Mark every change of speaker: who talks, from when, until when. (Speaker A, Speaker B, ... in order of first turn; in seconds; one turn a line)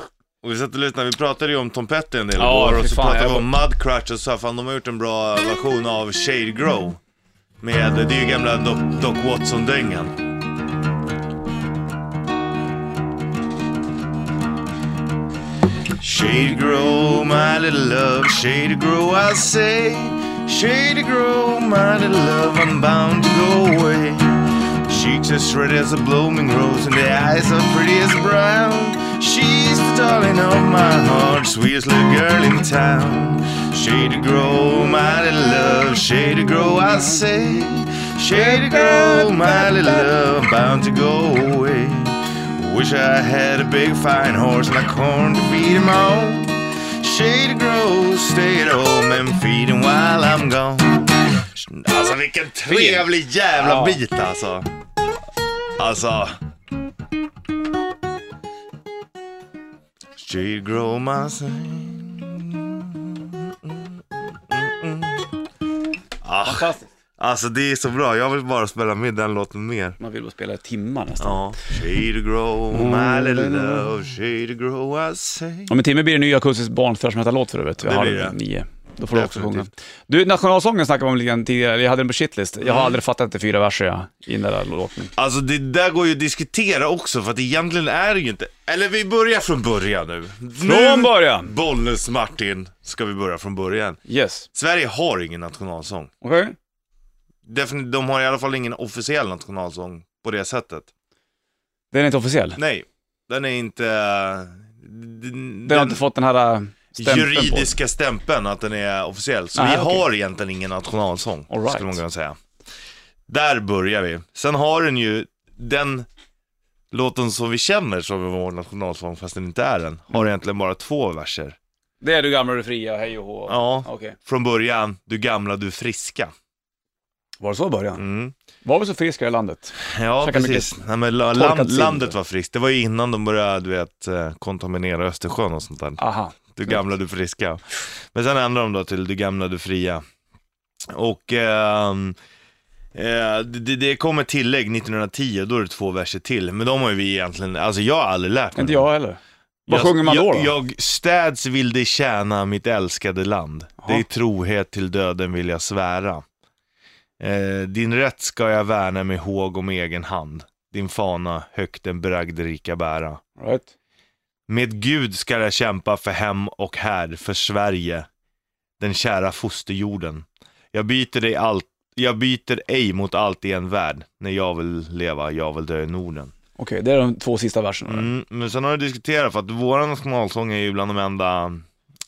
Speaker A: 0.4-7.0
Speaker B: 2.4-3.5
Speaker A: 7.6-10.1
Speaker A: 16.0-54.7
Speaker B: 36.7-37.2
Speaker B: 38.3-39.9
Speaker B: 52.7-54.0
Speaker A: 55.8-56.4
Speaker A: 60.2-65.3
Speaker A: 66.2-70.0
Speaker B: 66.4-66.9
Speaker B: 70.0-71.4
Speaker A: 71.2-75.7
Speaker B: 72.7-73.7
Speaker B: 75.7-85.1
Speaker A: 77.8-78.4
Speaker A: 79.1-79.7
Speaker A: 82.6-83.0
Speaker A: 85.2-94.0
Speaker B: 90.6-91.5
Speaker B: 94.1-94.5
Speaker A: 94.5-96.1
Speaker B: 96.2-96.5
Speaker A: 97.4-100.9
Speaker B: 101.9-102.6
Speaker A: 102.6-106.0
Speaker B: 105.7-107.8
Speaker A: 107.0-112.3
Speaker B: 109.5-110.0
Speaker B: 111.5-112.0
Speaker A: 113.3-116.1
Speaker A: 116.9-121.6
Speaker B: 122.0-124.2
Speaker A: 123.5-126.3
Speaker B: 127.4-128.0
Speaker A: 128.0-128.3
Speaker B: 128.6-130.8
Speaker A: 129.8-136.0
Speaker B: 131.3-132.1
Speaker B: 136.0-136.8
Speaker A: 136.5-140.0
Speaker A: 140.9-142.2
Speaker A: 142.9-148.9
Speaker B: 148.5-150.5
Speaker A: 149.7-156.2
Speaker A: 157.2-163.2
Speaker B: 163.4-163.7
Speaker A: 164.5-168.1
Speaker A: 168.8-176.3
Speaker B: 176.6-178.1
Speaker A: 177.9-181.6